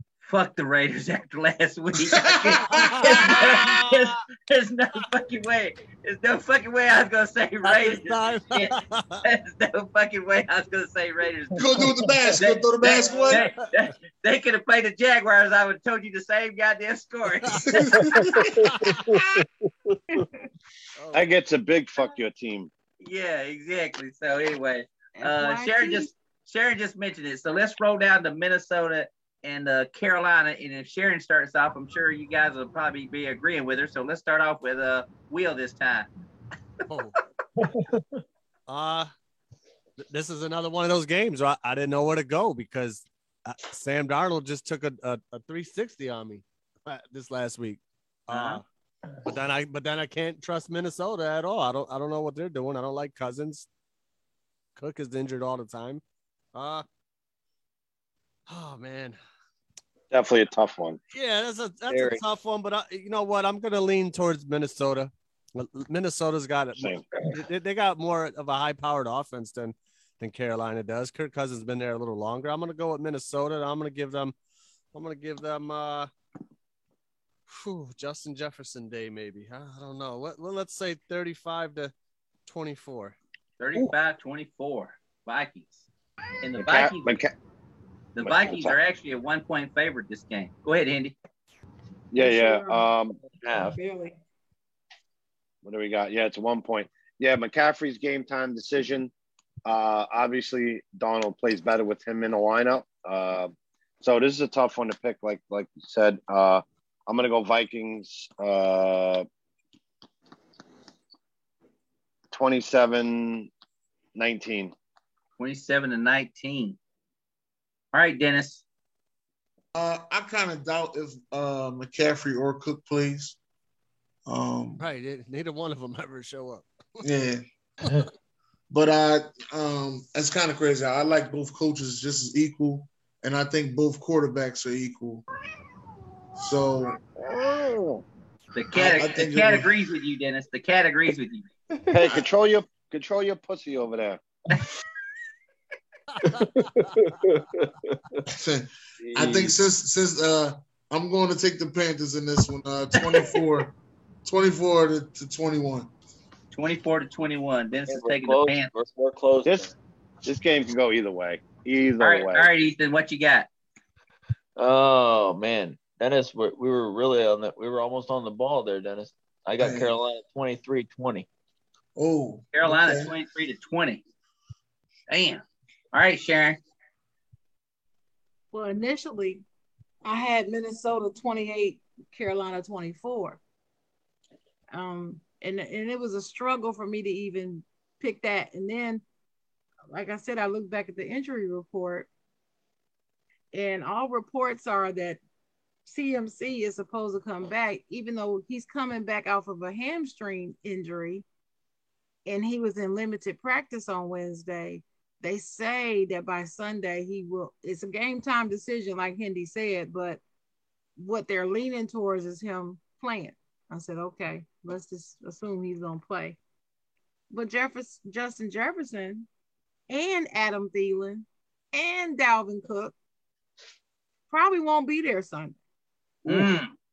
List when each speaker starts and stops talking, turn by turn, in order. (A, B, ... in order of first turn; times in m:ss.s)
0:00.2-0:11.6 A
0:02.2-0:03.7 B
0:02.7-0:04.0 C
0:07.6-0:09.2 C
0:11.6-0:13.4 B
0:12.4-0:18.0 A
0:17.7-0:18.5 B
0:18.8-0:19.2 C
0:21.0-0:21.3 C
0:21.1-0:22.7 D
0:23.0-0:36.1 A
0:25.2-0:26.1 E
0:36.9-0:37.2 C
0:37.6-0:38.2 F
0:38.7-0:39.1 C
0:40.0-0:48.6 C
0:49.3-0:53.7 C
0:54.8-0:56.0 C
0:56.5-0:56.8 C
0:58.5-0:59.2 C
1:00.1-1:01.0 D
1:01.1-1:14.3 C
1:01.9-1:02.2 D
1:06.8-1:07.4 D
1:14.9-1:16.1 C
1:17.5-1:21.9 C
1:22.5-1:23.2 C
1:23.6-1:25.9 A
1:26.4-1:27.2 A
1:26.6-1:27.3 D
1:28.2-1:31.2 A
1:28.2-1:28.8 D
1:32.1-1:33.2 D
1:32.2-1:32.9 E
1:33.4-1:33.8 F
1:33.5-1:34.2 E
1:35.6-1:39.1 D
1:39.6-1:49.2 D
1:52.3-1:53.5 D
1:54.2-1:54.7 D
1:55.4-1:56.8 A
1:57.9-1:58.6 A
1:59.8-2:03.4 B
2:04.3-2:04.8 B
2:04.8-2:07.0 C
2:07.0-2:07.4 B
2:08.7-2:15.2 B
2:16.4-2:17.0 B
2:17.2-2:18.0 D
2:18.6-2:21.5 A
2:18.7-2:19.7 B
2:21.9-2:24.2 D
2:26.2-2:26.7 C
2:27.4-2:27.9 F
2:28.3-2:35.9 B
2:29.0-2:29.6 F
2:33.0-2:33.4 A
2:36.5-2:38.7 A
2:37.9-2:39.7 F
2:39.4-2:39.7 D
2:40.2-2:42.5 D
2:42.0-2:43.5 A
2:44.6-2:51.3 F
2:49.6-2:49.9 B
2:52.0-2:53.1 B
2:52.5-2:54.0 A
2:55.1-2:55.4 A
2:55.9-2:56.6 A
2:58.5-2:59.4 E
3:00.0-3:03.4 E
3:04.7-3:09.0 E
3:09.9-3:12.1 E
3:13.5-3:15.2 E
3:15.9-3:21.2 E
3:22.3-3:30.2 E
3:31.0-3:36.4 E
3:37.3-3:39.3 E
3:39.9-3:43.0 E
3:44.3-3:45.6 E
3:46.2-3:46.7 A
3:46.3-3:46.5 E